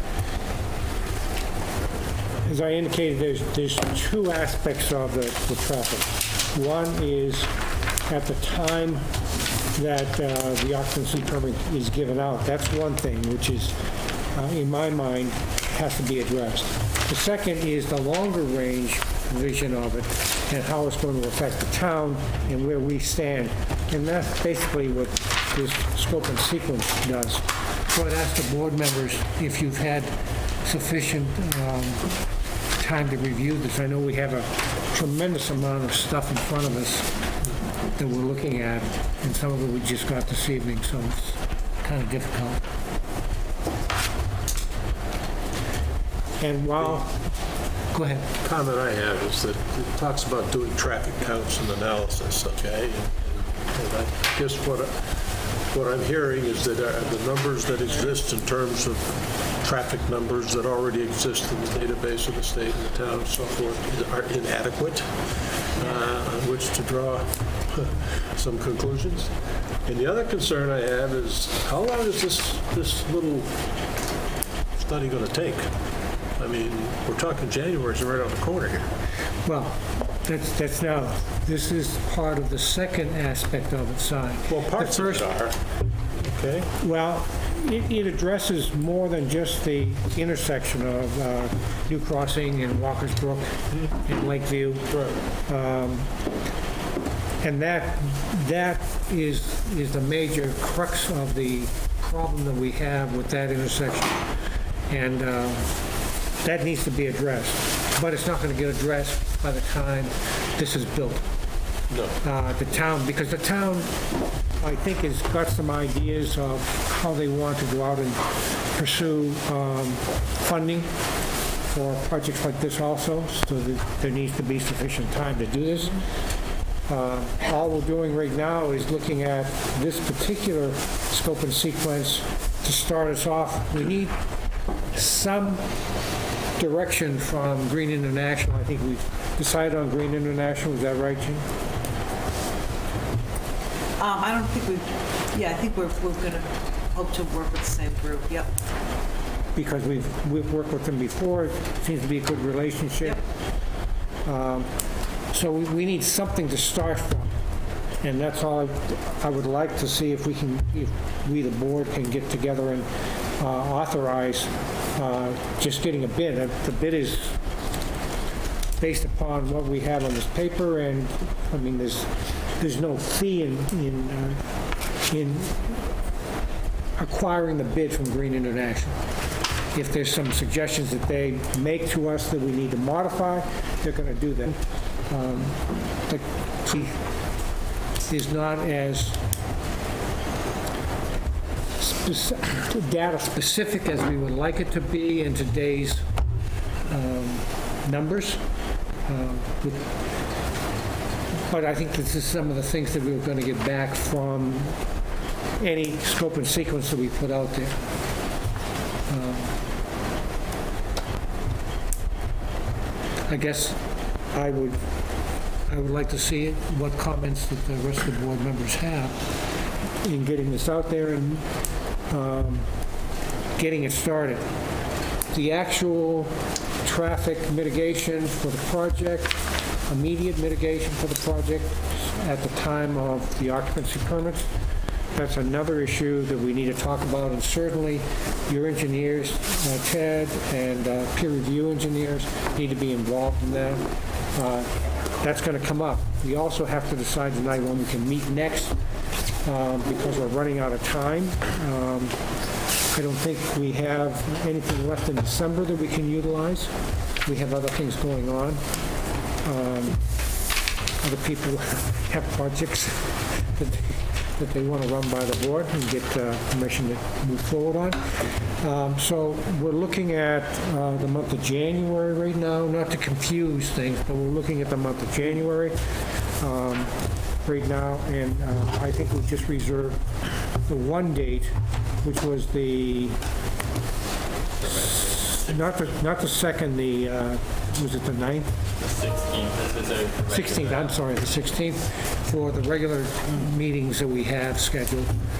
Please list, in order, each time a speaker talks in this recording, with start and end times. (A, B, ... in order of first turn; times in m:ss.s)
0:02.4-0:07.5 A
0:08.0-0:09.0 A
0:09.7-0:13.8 A
0:14.3-0:32.2 A
0:32.8-0:37.1 A
0:37.9-0:42.6 A
0:46.4-0:47.1 A
0:46.8-0:47.0 B
0:47.9-0:48.3 A
0:48.4-1:09.3 B
1:09.8-1:13.5 B
1:14.8-1:15.7 B
1:16.4-1:18.9 B
1:19.4-1:25.4 A
1:24.5-1:25.6 B
1:26.1-1:26.7 B
1:26.8-1:34.9 A
1:34.9-1:35.2 B
1:35.4-1:36.1 A
1:37.4-1:44.3 A
1:44.9-1:45.8 A
1:46.4-1:51.3 A
1:51.9-1:52.2 B
1:52.2-2:00.9 A
2:01.7-2:06.0 A
2:06.9-2:14.2 A
2:14.9-2:15.7 A
2:16.6-2:21.4 A
2:24.0-2:28.5 C
2:29.5-2:33.2 A
2:34.2-2:34.7 A
2:35.3-2:37.3 A
2:38.0-2:47.4 A
2:48.8-2:54.5 A
2:55.0-2:55.8 A
2:57.0-2:59.0 A
2:59.7-3:07.0 A
3:08.1-3:09.2 A
3:11.8-3:16.1 A
3:16.9-3:18.4 A
3:19.0-3:19.9 A
3:21.5-3:24.8 A
3:25.6-3:27.9 A
3:29.1-3:29.5 A
3:33.3-3:33.8 A
3:34.3-3:34.8 A
3:35.7-3:39.3 A
3:40.0-3:41.5 A
3:42.1-3:42.7 A
3:43.6-3:44.5 A
3:45.3-3:54.5 A
3:55.1-4:08.7 A
4:09.4-4:12.2 A
4:12.9-4:16.7 A
4:17.2-4:18.6 A
4:19.4-4:20.0 A
4:21.0-4:35.8 A
4:36.4-4:40.0 A
4:40.6-4:43.2 A
4:44.6-4:48.5 A
4:44.6-4:45.6 D
4:48.8-4:50.9 D
4:50.3-4:55.1 A